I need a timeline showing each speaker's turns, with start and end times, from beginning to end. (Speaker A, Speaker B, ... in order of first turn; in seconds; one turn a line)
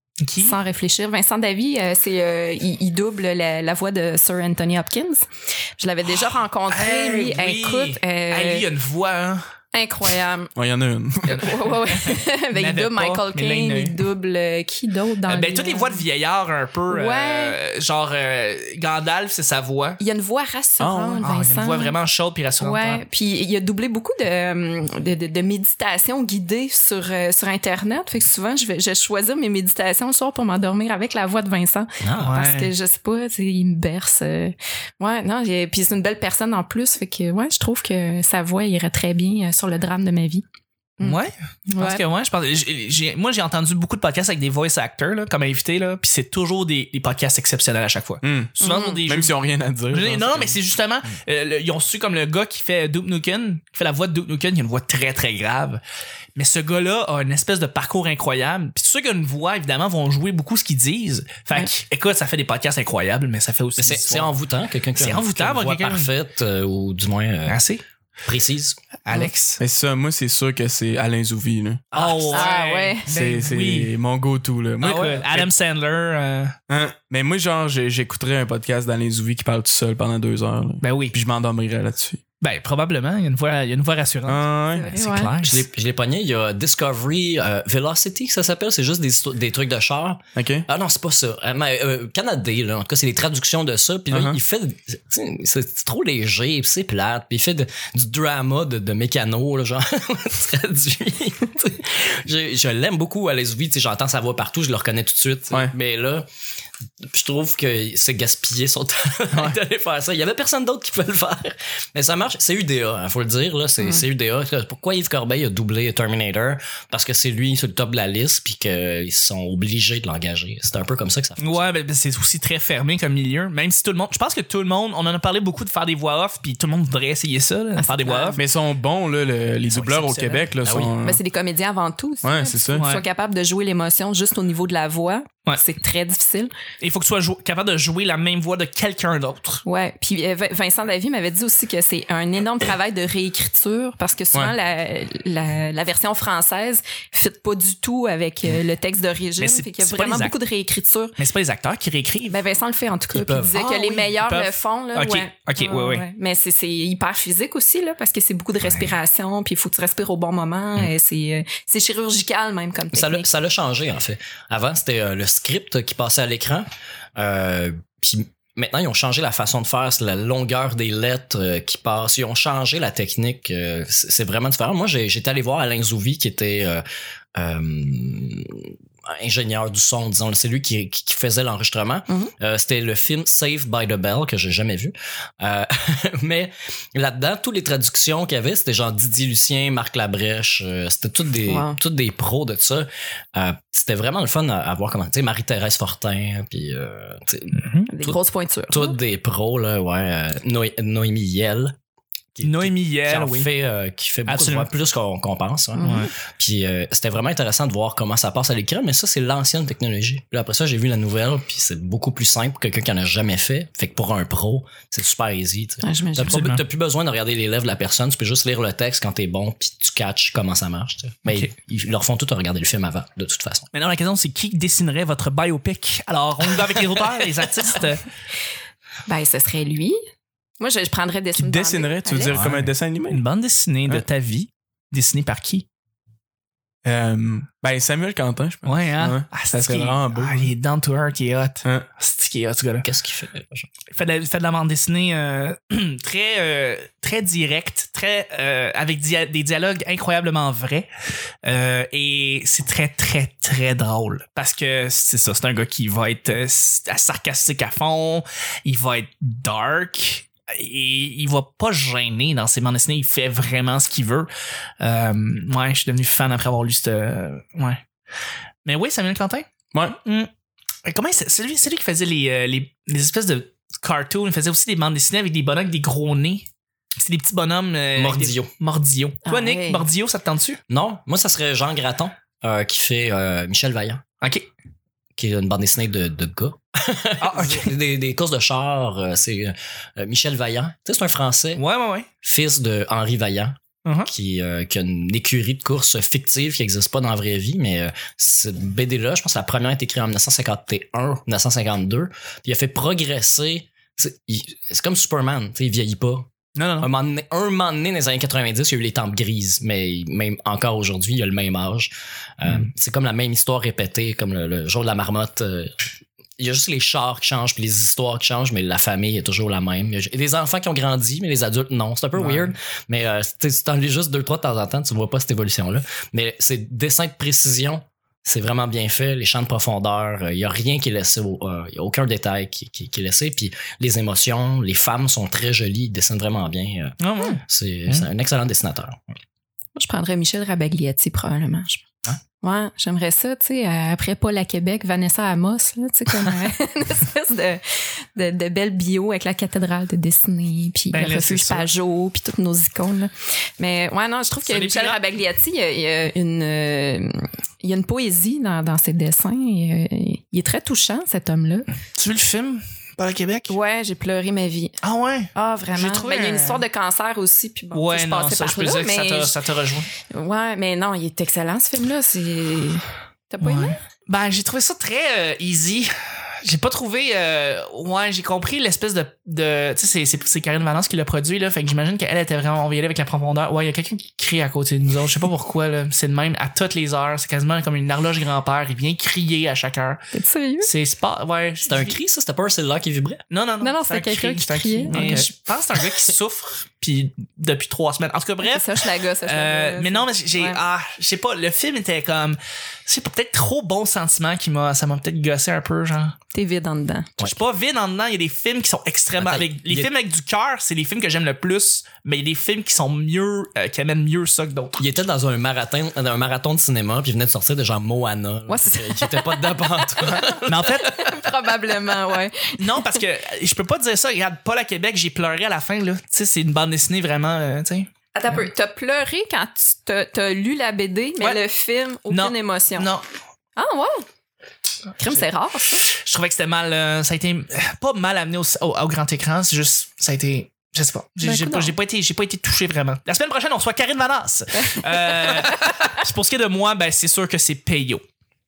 Speaker A: 0.2-0.6
Speaker B: 0.4-8.7
Speaker A: 6.2-9.5
Speaker B: 9.7-10.5
Speaker C: 10.6-11.5
Speaker A: 11.3-14.0
Speaker B: 11.3-16.1
Speaker A: 15.3-20.0
Speaker B: 16.9-17.6
Speaker B: 20.0-22.0
Speaker C: 20.8-21.3
Speaker A: 21.2-23.0
Speaker B: 22.6-40.4
Speaker D: 32.0-32.4
Speaker A: 32.2-32.7
Speaker A: 41.0-49.3
Speaker B: 41.7-42.0
Speaker C: 48.2-50.6
Speaker B: 48.6-49.0
Speaker A: 49.9-55.8
Speaker A: 56.4-64.3
Speaker D: 63.8-67.6
Speaker A: 65.0-66.1
Speaker A: 67.5-67.8
Speaker D: 68.3-68.8
Speaker A: 69.0-69.6
Speaker C: 69.6-71.8
Speaker D: 71.9-72.5
Speaker A: 71.9-73.9
Speaker B: 72.3-73.1
Speaker C: 73.1-75.5
Speaker A: 74.8-76.6
Speaker C: 76.7-82.2
Speaker A: 80.8-81.2
Speaker A: 82.4-85.7
Speaker C: 84.3-85.0
Speaker B: 84.8-85.3
Speaker D: 85.4-106.3
Speaker C: 90.4-90.7
Speaker C: 94.1-94.4
Speaker D: 107.0-121.6
Speaker C: 109.3-109.6
Speaker A: 121.4-128.4
Speaker B: 127.8-128.4
Speaker C: 128.4-131.2
Speaker A: 129.7-130.5
Speaker D: 130.6-130.9
Speaker B: 131.0-136.5
Speaker C: 132.2-132.9
Speaker A: 132.8-133.0
Speaker A: 136.8-139.6
Speaker B: 139.7-151.2
Speaker A: 149.4-150.4
Speaker A: 151.2-152.4
Speaker B: 152.3-163.3
Speaker D: 153.1-153.8
Speaker A: 153.5-156.1
Speaker D: 162.9-201.8
Speaker B: 191.4-191.8
Speaker A: 197.5-197.9
Speaker B: 197.9-199.0
Speaker D: 202.3-223.7
Speaker A: 202.4-203.5
Speaker A: 204.3-204.7
Speaker B: 205.8-206.1
Speaker A: 205.8-206.1
Speaker B: 215.8-216.4
Speaker A: 216.2-216.6
Speaker A: 223.7-228.1
Speaker B: 229.1-230.0
Speaker B: 230.6-232.4
Speaker C: 231.3-233.2
Speaker D: 232.3-232.6
Speaker A: 233.1-235.7
Speaker C: 236.8-240.5
Speaker A: 238.7-242.9
Speaker D: 242.8-243.7
Speaker A: 243.9-250.9
Speaker A: 251.4-264.3
Speaker A: 264.8-267.8
Speaker A: 268.6-269.5
Speaker A: 270.0-270.3
Speaker A: 270.9-280.6
Speaker D: 278.0-278.5
Speaker B: 279.2-279.9
Speaker D: 280.7-284.0
Speaker A: 284.2-284.5
Speaker D: 285.2-291.6
Speaker A: 287.2-287.7
Speaker A: 291.6-292.1
Speaker D: 292.2-315.9
Speaker A: 293.9-294.1
Speaker A: 306.6-306.9
Speaker D: 316.4-339.1
Speaker A: 322.2-322.5
Speaker A: 337.0-338.1
Speaker B: 339.8-341.8
Speaker B: 342.4-361.7
Speaker A: 350.9-351.7
Speaker A: 354.5-355.0
Speaker A: 361.9-363.6
Speaker B: 363.5-364.8
Speaker A: 364.8-366.6
Speaker B: 365.3-369.4
Speaker A: 367.7-369.9
Speaker B: 370.1-373.8
Speaker A: 373.4-390.0
Speaker B: 390.1-390.7
Speaker A: 390.6-392.0
Speaker D: 391.6-393.2
Speaker A: 393.3-406.2
Speaker B: 393.6-395.3
Speaker D: 394.9-395.9
Speaker B: 398.4-400.6
Speaker B: 406.3-407.1
Speaker A: 407.2-414.9
Speaker D: 409.2-409.9
Speaker D: 414.8-421.1
Speaker B: 418.5-422.9
Speaker A: 420.4-420.9
Speaker A: 422.6-427.9
Speaker B: 428.1-432.9
Speaker A: 432.1-433.1
Speaker B: 433.6-434.1
Speaker B: 435.0-435.9
Speaker A: 435.9-448.0
Speaker B: 441.2-441.7
Speaker B: 444.6-445.8